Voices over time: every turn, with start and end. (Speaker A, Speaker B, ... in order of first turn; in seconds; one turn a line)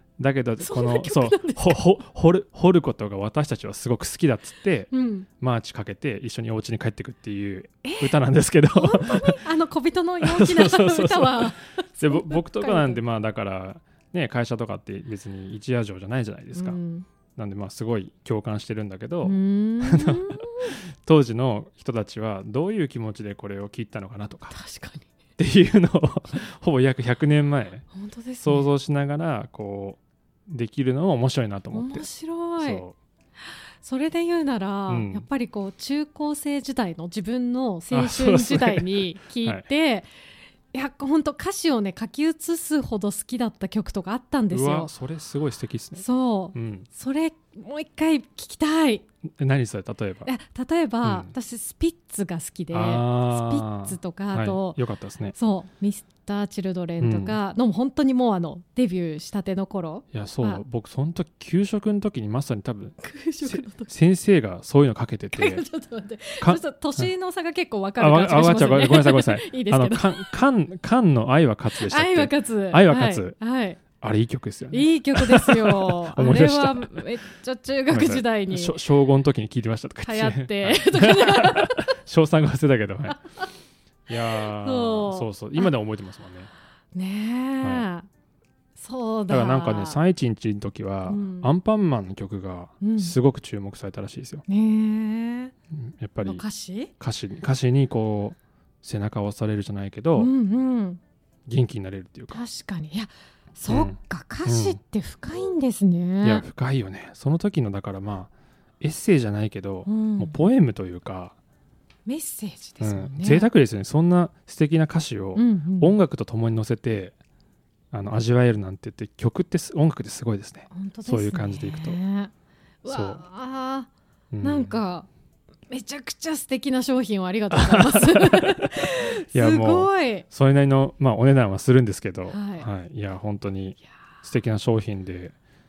Speaker A: 0.2-9.4
Speaker B: 0.6-1.8
Speaker B: 4.9-5.3
Speaker B: 7.8-8.2
Speaker B: 8.7-13.0
Speaker A: 10.2-16.8
Speaker B: 16.5-17.1
Speaker A: 17.4-24.6
Speaker B: 19.2-20.7
Speaker B: 24.5-25.1
Speaker A: 25.4-27.9
Speaker B: 27.9-28.7
Speaker A: 28.4-32.1
Speaker B: 31.7-32.9
Speaker A: 32.6-33.0
Speaker B: 33.8-40.1
Speaker A: 34.9-35.3
Speaker A: 37.9-39.7
Speaker B: 40.7-44.9
Speaker A: 44.5-46.9
Speaker B: 46.0-49.0
Speaker A: 49.3-50.3
Speaker B: 50.3-54.8
Speaker A: 51.0-51.3
Speaker A: 52.7-55.4
Speaker B: 55.3-60.6
Speaker A: 57.0-57.4
Speaker A: 60.1-65.7
Speaker B: 63.0-63.9
Speaker B: 65.3-70.3
Speaker A: 66.4-67.1
Speaker A: 68.0-73.3
Speaker B: 71.7-73.8
Speaker A: 74.0-77.0
Speaker B: 74.7-78.8
Speaker A: 77.9-83.2
Speaker B: 80.0-81.8
Speaker A: 84.1-86.5
Speaker B: 84.1-85.7
Speaker B: 86.9-88.1
Speaker B: 88.8-90.0
Speaker A: 89.3-94.5
Speaker B: 91.1-91.5
Speaker B: 92.8-93.2
Speaker B: 94.5-95.5
Speaker A: 95.7-96.4
Speaker B: 96.2-96.9
Speaker A: 97.0-100.3
Speaker B: 100.2-101.0
Speaker A: 101.5-102.4
Speaker B: 102.3-106.5
Speaker A: 103.7-104.8
Speaker A: 106.2-111.4
Speaker B: 109.9-110.3
Speaker B: 112.1-113.5
Speaker A: 112.8-117.1
Speaker B: 115.3-116.0
Speaker A: 117.9-122.0
Speaker B: 120.7-122.3
Speaker B: 122.8-123.9
Speaker A: 122.9-123.2
Speaker A: 124.3-124.8
Speaker B: 124.4-125.1
Speaker B: 125.7-130.3
Speaker A: 127.5-135.3
Speaker B: 132.3-132.7